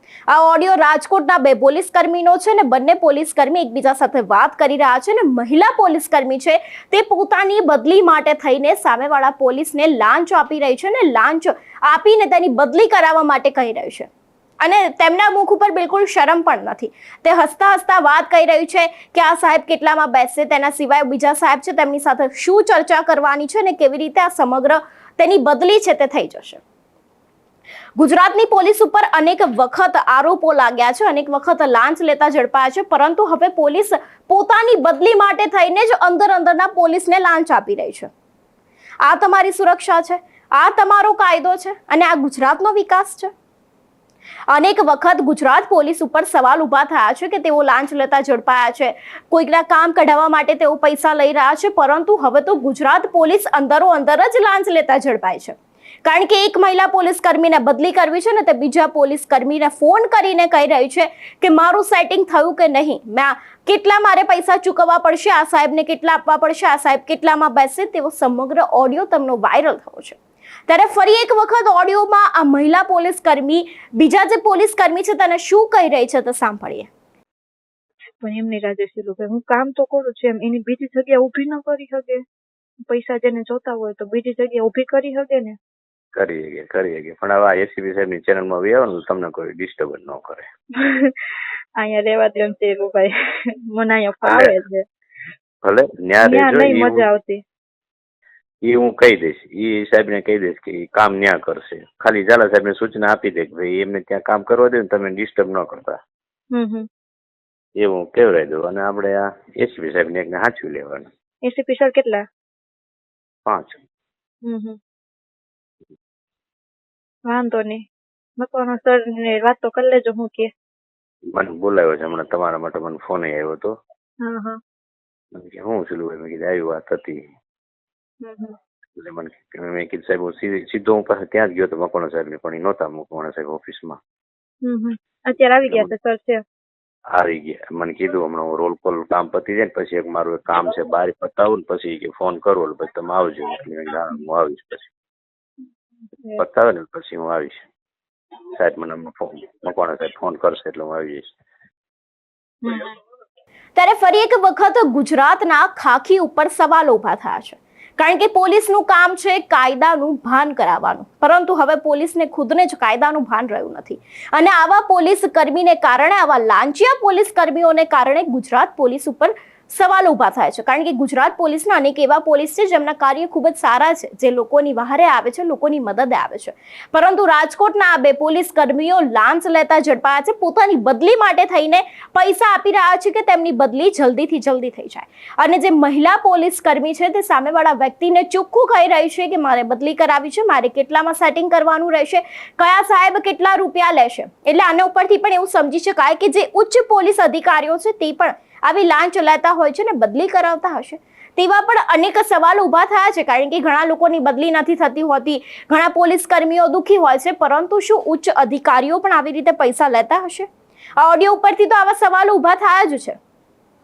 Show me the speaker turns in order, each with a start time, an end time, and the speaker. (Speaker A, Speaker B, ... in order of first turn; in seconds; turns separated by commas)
Speaker A: 0.3-14.1, Speaker A: 14.6-26.6, Speaker A: 28.0-38.1, Speaker A: 39.0-43.3, Speaker A: 44.5-76.9, Speaker B: 78.2-82.2, Speaker B: 82.9-85.6, Speaker C: 86.2-90.5, Speaker B: 90.8-93.1, Speaker B: 93.7-94.8, Speaker C: 94.2-94.5, Speaker C: 95.6-97.1, Speaker B: 96.2-97.4, Speaker C: 98.6-106.0, Speaker B: 106.5-106.9, Speaker C: 107.8-111.1, Speaker B: 111.5-112.2, Speaker C: 113.5-113.8, Speaker B: 114.5-114.8, Speaker B: 117.3-117.8, Speaker B: 118.4-120.5, Speaker C: 121.3-123.8, Speaker B: 124.2-124.6, Speaker C: 125.3-127.2, Speaker B: 128.2-128.6, Speaker C: 129.0-134.0, Speaker B: 134.7-136.4, Speaker C: 135.7-135.9, Speaker C: 137.2-144.9, Speaker C: 146.4-147.6, Speaker C: 148.5-151.3, Speaker B: 152.6-153.0, Speaker A: 153.8-210.5, Speaker A: 211.0-213.2